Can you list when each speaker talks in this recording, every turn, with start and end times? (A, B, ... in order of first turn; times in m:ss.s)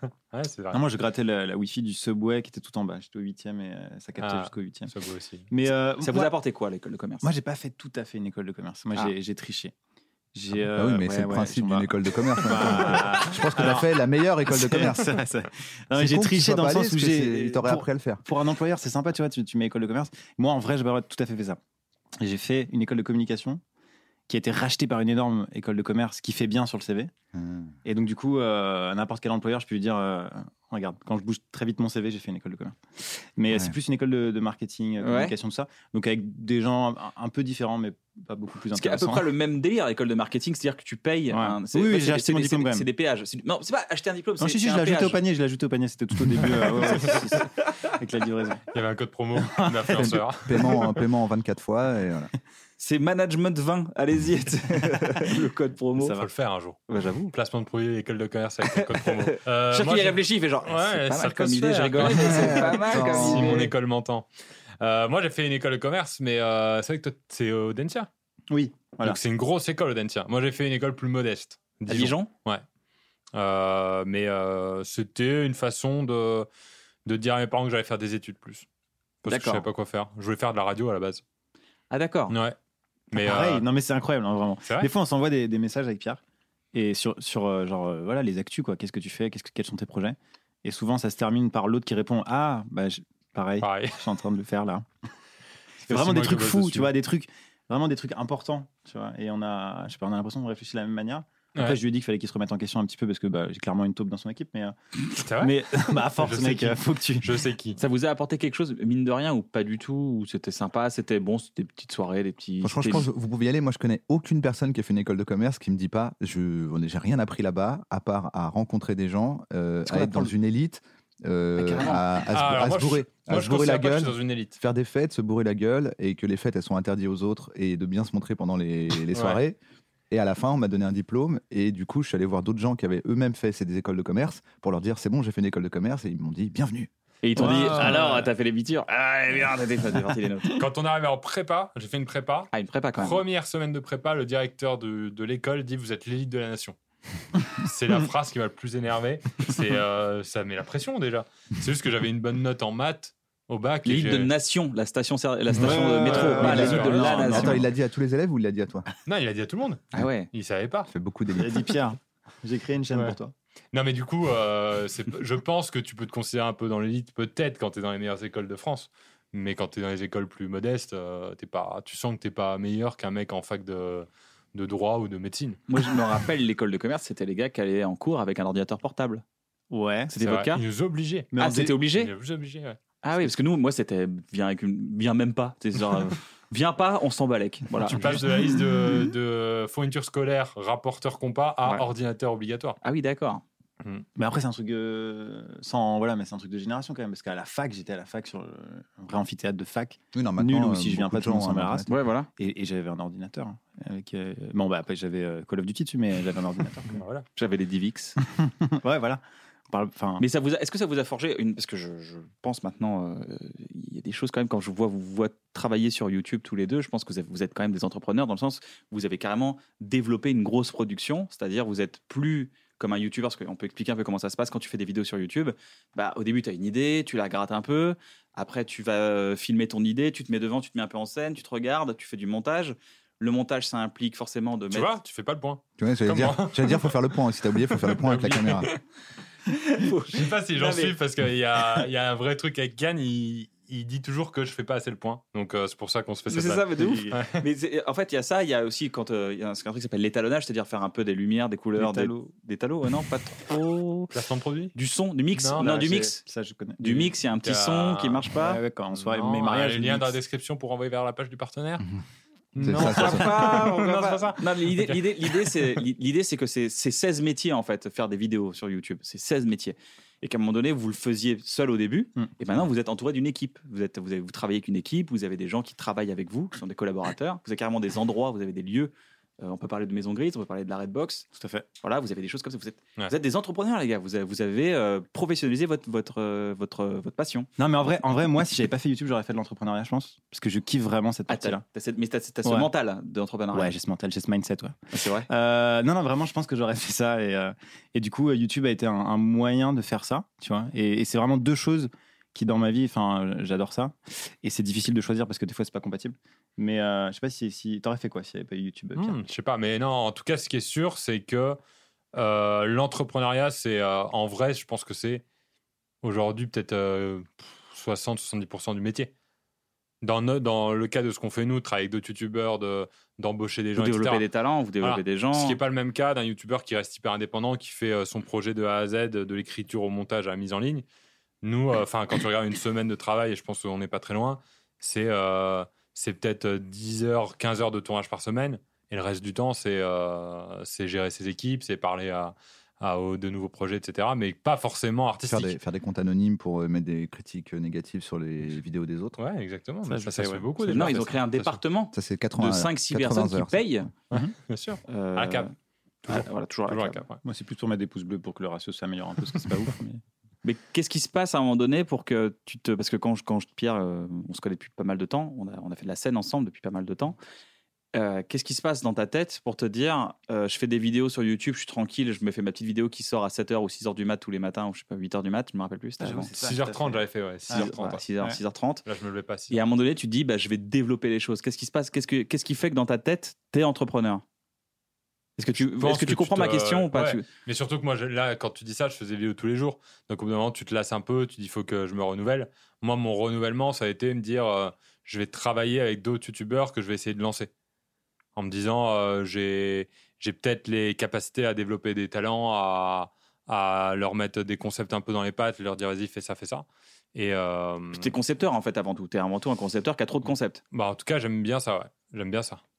0:00.3-0:00.8 A
0:00.7-0:04.9 B
0:04.2-0:05.5 A
0:05.5-0:06.3 B
0:06.0-0:07.3 C
0:07.2-0:09.7 B
0:10.3-0:11.9 B
0:10.7-0:15.1 D
0:12.4-0:21.6 B
0:15.9-0:18.2 D
0:22.2-0:23.6 B
0:24.3-0:27.1 B
0:27.3-0:27.7 D
0:27.8-0:39.3 B
0:35.0-0:35.3 C
0:38.7-0:45.2 C
0:41.3-0:42.9 B
0:44.4-0:48.6 B
0:48.7-0:50.8 A
0:49.4-0:50.1 B
0:49.9-0:52.3 D
0:52.8-0:56.2 C
0:56.0-0:56.2 B
0:56.2-0:56.8 A
0:56.9-0:57.3 C
0:57.3-1:04.3 A
0:58.8-1:03.7 C
1:02.5-1:03.6 D
1:04.8-1:08.1 A
1:08.5-1:09.2 B
1:09.0-1:12.6 A
1:11.9-1:12.3 C
1:13.3-1:16.5 A
1:17.0-1:18.6 A
1:19.2-1:21.2 A
1:19.3-1:19.6 C
1:21.9-1:22.4 C
1:22.3-1:22.6 A
1:23.1-1:26.2 B
1:23.1-1:23.6 A
1:24.6-1:24.9 A
1:26.7-1:34.9 B
1:33.6-1:34.0 A
1:35.8-1:44.8 B
1:35.9-1:36.9 A
1:41.5-1:41.8 A
1:45.2-1:47.8 A
1:45.3-1:47.4 B
1:47.8-1:53.1 C
1:52.6-2:09.6 D
2:00.0-2:00.3 C
2:01.6-2:02.0 C
2:02.3-2:04.6 A
2:09.1-2:09.4 A
2:10.1-2:16.9 D
2:17.2-2:20.6 C
2:17.4-2:18.2 A
2:17.4-2:18.3 B
2:20.6-2:26.8 A
2:22.5-2:23.2 C
2:27.6-2:34.3 A
2:33.8-2:37.6 C
2:35.5-2:37.5 B
2:35.6-2:37.6 A
2:36.4-2:38.9 D
2:39.0-2:40.9 A
2:39.9-2:40.3 C
2:40.9-2:41.7 D
2:41.4-2:43.3 B
2:43.7-2:55.6 A
2:55.7-2:59.2 C
2:59.7-3:00.1 B
3:00.1-3:00.6 C
3:00.2-3:01.3 A
3:01.3-3:01.8 B
3:01.4-3:02.1 C
3:01.9-3:02.8 A
3:03.0-3:08.2 C
3:07.8-3:12.8 A
3:12.8-3:13.4 C
3:14.2-3:27.0 B
3:20.1-3:21.9 D
3:21.9-3:22.3 C
3:26.9-3:27.2 A
3:27.4-3:28.2 C
3:28.4-3:30.2 B
3:30.2-3:54.9 C
3:54.7-3:57.0 A
3:55.8-3:58.7 D
3:57.7-3:58.7 A
3:59.6-4:01.0 C
4:00.1-4:07.4 A
4:06.3-4:14.1 C
4:06.8-4:07.2 B
4:11.8-4:12.2 B
4:14.1-4:14.7 A
4:14.7-4:16.2 C
4:15.4-4:15.6 A
4:15.6-4:17.1 B
4:16.8-4:18.6 C
4:17.4-4:18.3 A
4:18.4-4:20.1 B
4:18.9-4:21.8 A
4:22.5-4:25.8 A
4:22.6-4:23.4 D
4:22.7-4:41.3 C
4:41.3-4:41.7 B
4:41.8-4:47.5 C
4:47.6-4:51.6 B
4:51.3-4:53.7 C
4:52.4-4:52.7 B
4:53.5-4:54.8 B
4:54.9-4:55.3 C
4:55.3-5:09.2 B
5:09.0-5:11.6 A
5:12.1-5:15.2 A
5:16.0-5:19.1 A
5:20.0-5:24.2 A
5:23.8-5:25.6 C
5:24.8-5:30.8 A
5:31.4-5:45.6 A
5:45.2-5:49.2 D
5:49.2-5:51.6 A
5:49.8-5:50.9 B
5:50.6-5:53.9 C
5:51.9-5:53.9 D
5:54.1-5:55.5 A
5:54.9-5:55.5 C
5:56.0-5:57.2 A
5:56.0-5:57.0 C
5:57.2-6:00.0 B
6:00.4-6:07.2 C
6:07.9-6:16.3 C
6:16.0-6:18.4 B
6:16.4-6:18.0 A
6:17.5-6:18.8 C
6:18.8-6:19.6 A
6:19.5-6:24.2 C
6:25.4-6:27.3 C
6:25.5-6:37.5 A
6:38.4-6:48.1 A
6:47.9-6:50.6 C
6:50.7-6:52.6 A